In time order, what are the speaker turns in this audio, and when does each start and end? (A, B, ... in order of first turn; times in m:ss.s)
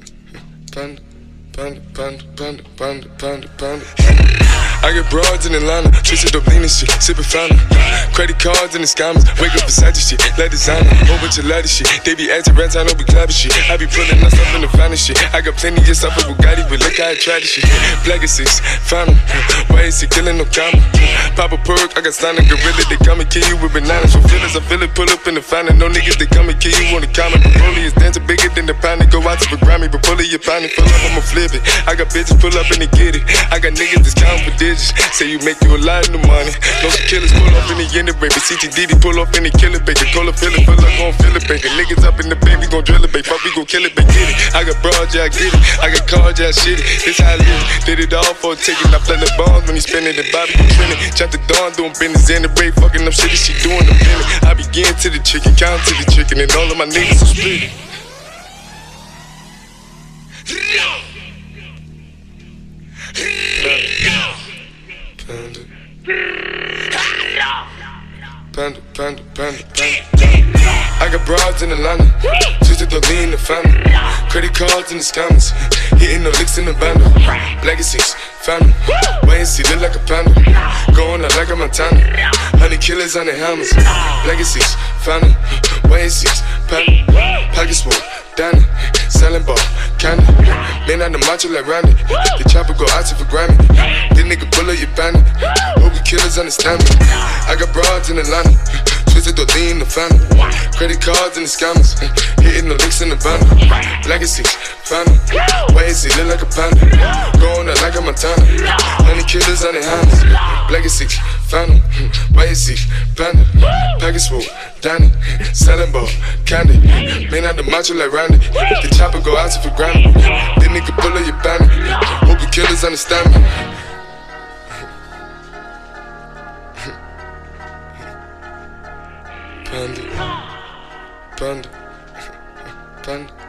0:00.7-0:57.8 A
1:03.5-1:04.4 A
1:05.2-1:05.7 A
1:08.5-2:03.4 A
2:09.6-2:10.2 A
2:11.4-2:11.7 A
2:13.0-2:13.3 A